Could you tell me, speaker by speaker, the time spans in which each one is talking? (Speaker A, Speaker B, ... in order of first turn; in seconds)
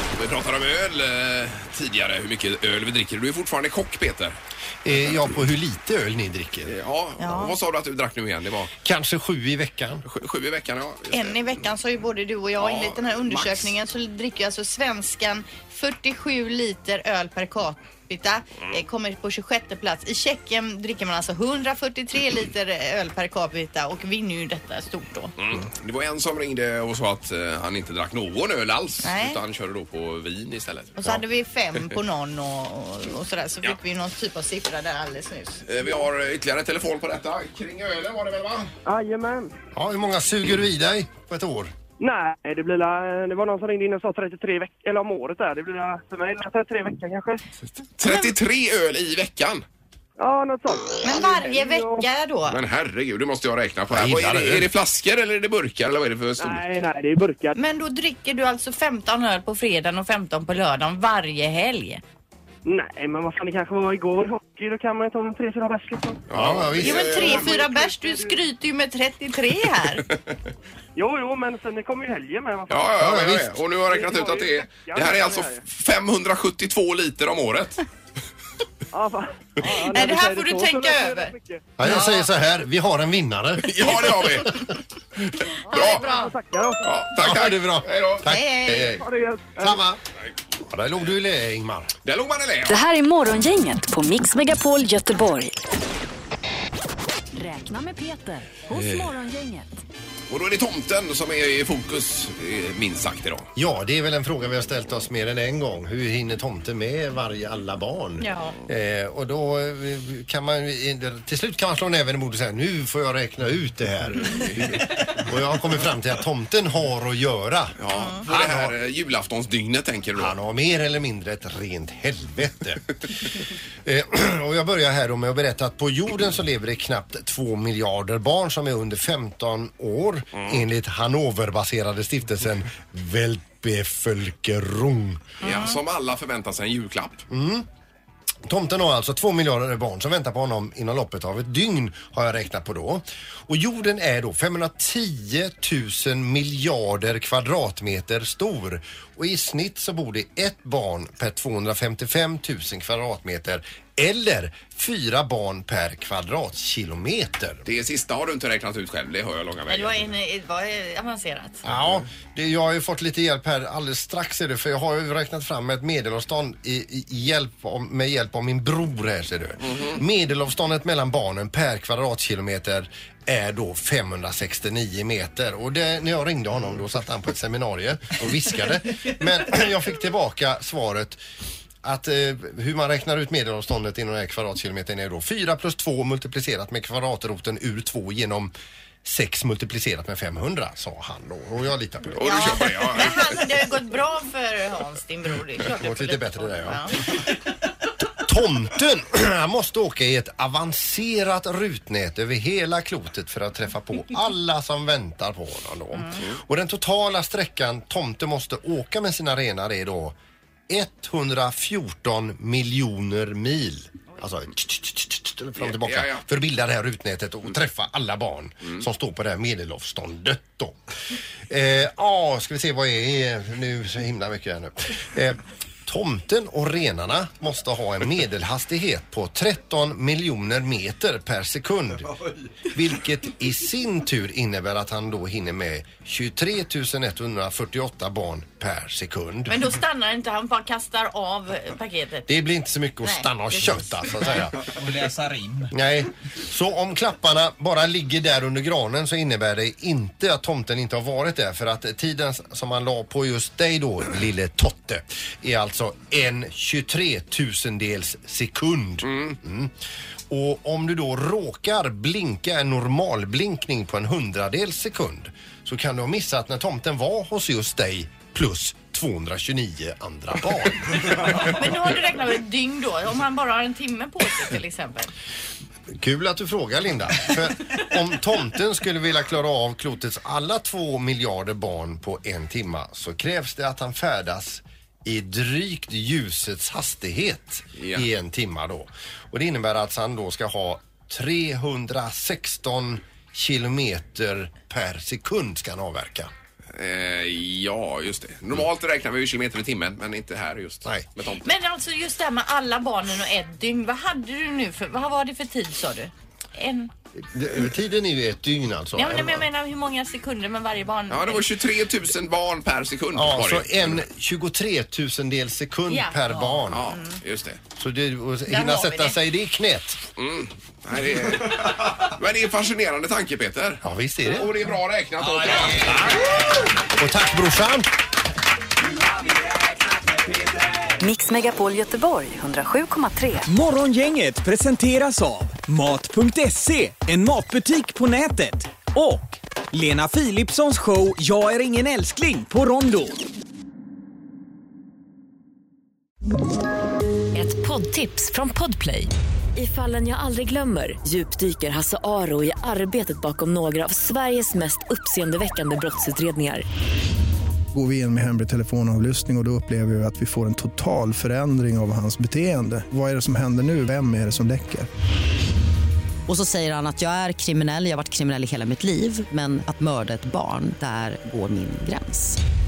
Speaker A: 0.1-4.4, 6.7-8.7, 10.1-11.6, 12.6-13.7, 25.4-31.0, 35.6-38.7, 48.0-49.6, 52.5-56.6, 66.3-67.6, 72.7-77.8, 83.6-84.7, 85.7-86.0, 86.8-88.9, 92.0-92.8, 100.3-103.5, 114.3-114.8, 117.8-120.4, 130.3-130.6, 135.4-137.2, 157.7-160.1, 169.6-170.0, 192.1-193.4, 215.6-216.2, 259.0-259.4, 287.8-288.1, 296.7-301.5, 311.1-314.0, 316.7-317.6, 320.2-326.3
Speaker B: 4.8-6.7, 8.8-10.0, 39.7-41.7, 53.9-54.7, 66.3-67.4, 73.0-73.6, 81.8-84.2, 87.2-89.0, 89.6-90.0, 90.6-91.9, 103.6-117.8, 118.3-118.7, 120.2-122.9, 123.8-135.2, 137.3-137.7, 138.4-157.7, 161.6-181.2, 181.8-188.5, 189.0-192.6, 195.7-197.2, 198.2-210.2, 210.7-239.6, 242.3-244.8, 245.7-259.7, 260.3-271.5, 275.9-296.3, 307.2-309.4, 313.1-316.9, 317.8-320.0, 323.8-324.5, 326.9-327.9
Speaker C: 7.2-7.6, 11.1-25.3, 29.0-29.4, 31.0-35.6, 48.0-48.3, 51.0-52.6, 57.5-62.0, 66.8-70.1, 79.6-82.2, 85.7-86.3, 88.2-89.0, 108.2-108.6, 117.9-118.2, 135.4-135.8, 159.7-161.7, 192.2-197.2, 205.9-206.2, 239.5-242.4, 243.0-244.4, 271.3-275.1, 301.4-306.9, 308.9-311.5, 315.9-316.2, 316.8-317.2, 318.5-319.2
Speaker D: 38.9-39.5, 42.0-47.4, 50.2-52.1, 56.4-57.6, 62.6-66.2, 67.1-68.4, 70.9-73.0, 73.9-75.6, 78.9-81.7, 85.7-87.0, 88.8-89.8
Speaker E: 92.7-95.5, 97.3-99.7, 331.0-333.5, 347.3-356.6
Speaker F: 244.4-245.7, 316.3-316.6, 325.2-326.9, 328.8-331.0, 333.4-343.2
Speaker G: 357.7-364.9
Speaker H: 366.3-372.4